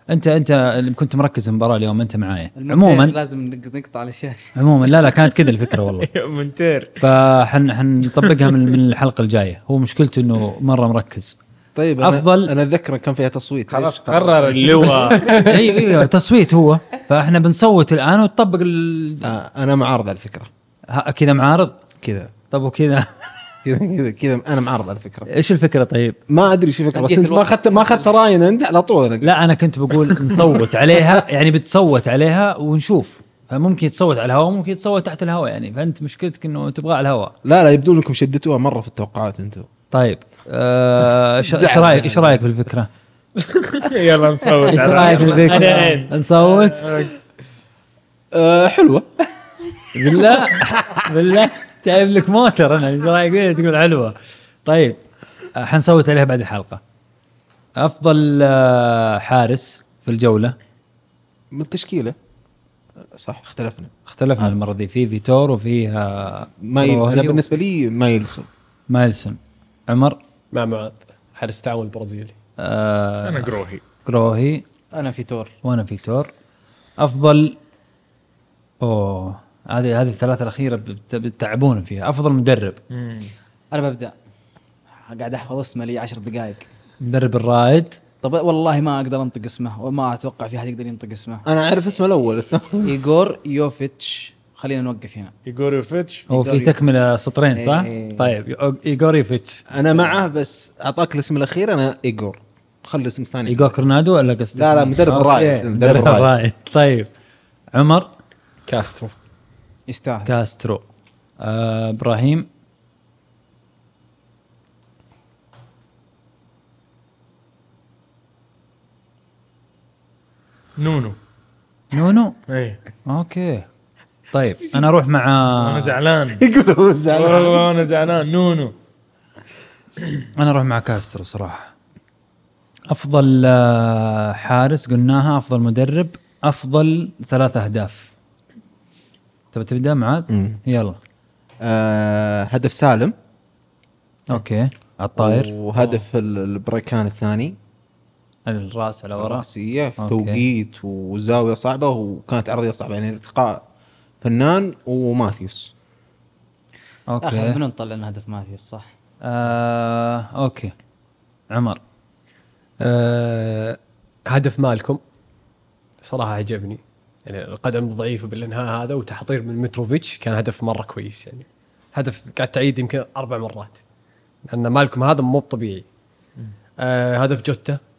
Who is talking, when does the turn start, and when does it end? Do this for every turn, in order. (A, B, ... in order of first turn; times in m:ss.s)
0:00.1-0:03.2 A
0:02.6-0:04.5 B
0:04.6-0:06.1 A
0:05.5-0:07.1 C
0:07.0-0:11.4 A
0:08.2-0:08.8 C
0:11.8-0:15.3 D
0:12.0-0:12.5 A
0:13.7-0:15.5 C
0:15.2-0:19.3 A
0:19.2-0:20.5 D
0:20.9-0:21.8 A
0:22.0-0:22.4 D
0:22.5-0:23.6 A
0:23.7-0:25.3 D
0:25.3-0:26.2 A
0:26.3-0:29.4 D
0:26.9-0:28.1 B
0:29.2-0:37.4 A
0:29.9-0:31.0 D
0:37.4-0:39.7 D
0:39.9-0:42.9 A
0:41.4-0:42.5 D
0:43.6-0:47.1 C
0:44.6-0:46.0 D
0:44.7-0:47.1 A
0:48.3-0:49.1 D
0:50.0-0:55.0 A
0:50.0-0:51.1 D
0:55.6-0:56.8 A
0:57.8-1:00.6 A
1:01.5-1:02.2 D
1:03.1-1:04.6 D
1:04.1-1:07.4 A
1:06.6-1:08.5 D
1:08.9-1:10.2 A
1:10.5-1:12.4 E
1:12.6-1:13.5 A
1:13.2-1:13.8 C
1:14.0-1:14.6 A
1:14.9-1:15.6 B
1:15.6-1:16.3 A
1:17.0-1:17.6 A
1:18.8-1:22.8 A
1:22.9-1:23.3 C
1:23.7-1:24.2 B
1:24.9-1:26.7 B
1:27.0-1:28.0 A
1:28.2-1:31.5 B
1:31.5-1:32.9 D
1:32.8-1:35.4 B
1:35.5-1:36.3 C
1:36.3-1:36.8 B
1:36.3-1:39.7 A
1:37.5-1:38.4 B
1:39.7-1:43.7 D
1:43.5-1:47.1 A
1:44.6-1:46.3 D
1:47.7-1:48.1 A
1:48.7-1:49.2 E
1:49.9-1:50.3 B
1:50.2-1:50.8 A
1:51.4-1:52.5 A
2:00.8-2:01.2 C
2:01.9-2:02.4 A
2:02.5-2:02.8 C
2:03.0-2:03.7 A
2:04.3-2:06.0 A
2:05.5-2:06.4 C
2:06.4-2:07.7 D
2:07.1-2:08.7 C
2:10.4-2:11.7 A
2:12.9-2:18.1 A
2:19.5-2:21.0 A
2:20.3-2:20.6 D
2:21.6-2:23.2 D
2:24.3-2:25.5 A
2:25.2-2:27.6 D
2:28.5-2:29.5 A
2:29.2-2:33.7 D
2:30.0-2:30.4 A
2:34.2-2:35.7 D
2:37.1-2:37.6 A
2:37.2-2:38.9 B
2:39.2-2:40.7 A
2:41.5-2:41.8 A
2:42.8-2:43.8 E
2:44.3-2:45.0 E
2:46.0-2:53.8 E
2:54.5-2:55.9 E
2:56.8-2:57.8 E